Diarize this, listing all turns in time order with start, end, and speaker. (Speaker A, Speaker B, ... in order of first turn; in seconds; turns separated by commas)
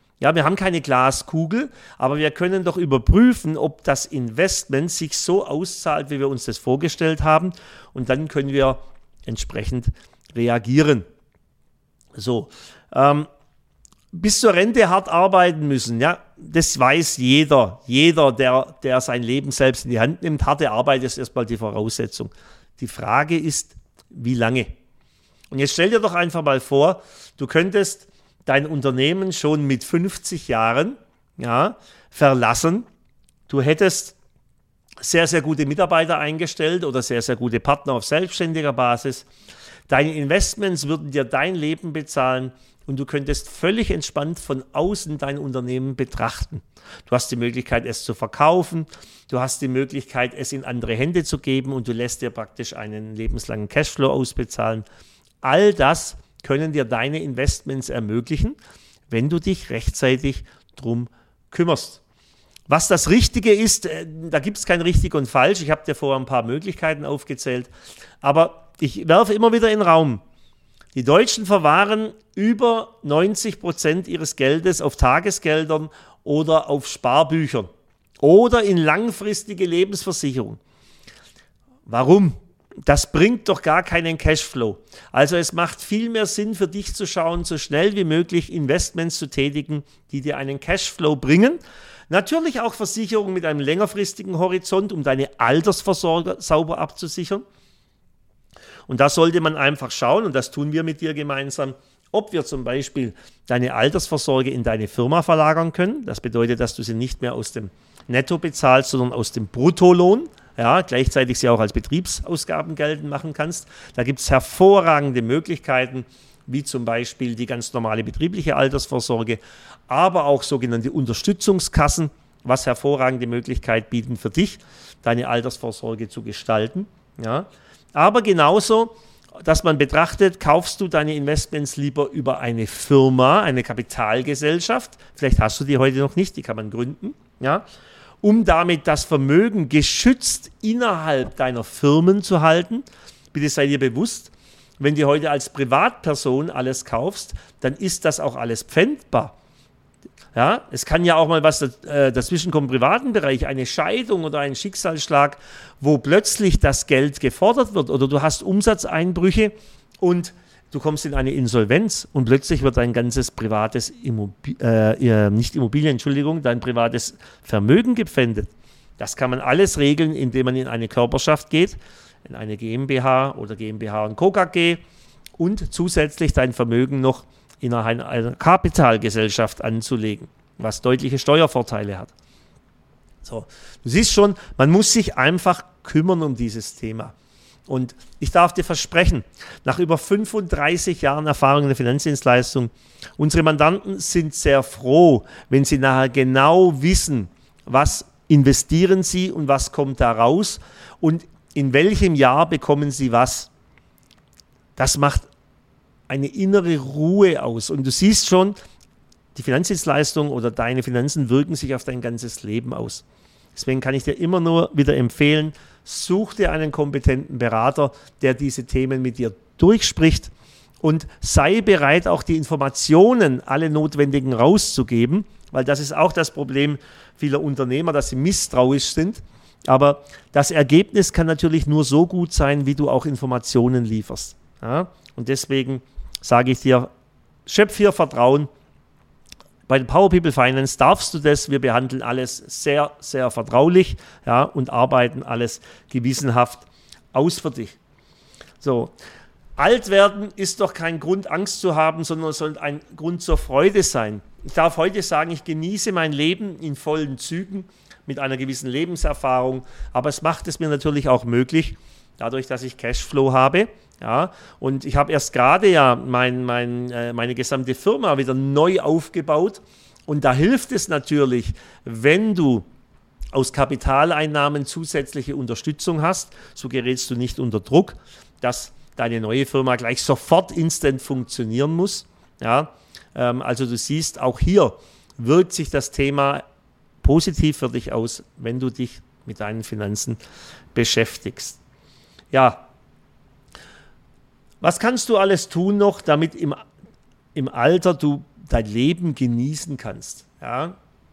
Speaker A: 0.2-11.1, Speaker A: 12.1-13.3, Speaker A: 14.1-24.7, Speaker A: 25.5-32.9, Speaker A: 33.5-34.1, Speaker A: 35.0-39.3, Speaker A: 39.9-54.8, Speaker A: 55.4-62.0, Speaker A: 62.7-70.2, Speaker A: 70.9-77.7, Speaker A: 78.2-80.6, Speaker A: 81.8-97.4, Speaker A: 98.9-137.7, Speaker A: 138.2-149.3, Speaker A: 150.3-174.8, Speaker A: 175.4-182.1, Speaker A: 183.2-187.1, Speaker A: 187.7-203.5, Speaker A: 204.8-205.3, Speaker A: 206.1-208.6, Speaker A: 209.3-236.9, Speaker A: 237.4-238.5, Speaker A: 239.7-247.8, Speaker A: 248.6-248.9, Speaker A: 249.6-272.7, Speaker A: 273.3-286.4, Speaker A: 287.0-290.2, Speaker A: 290.7-291.6, Speaker A: 292.3-292.7, Speaker A: 294.6-296.6, Speaker A: 297.3-300.8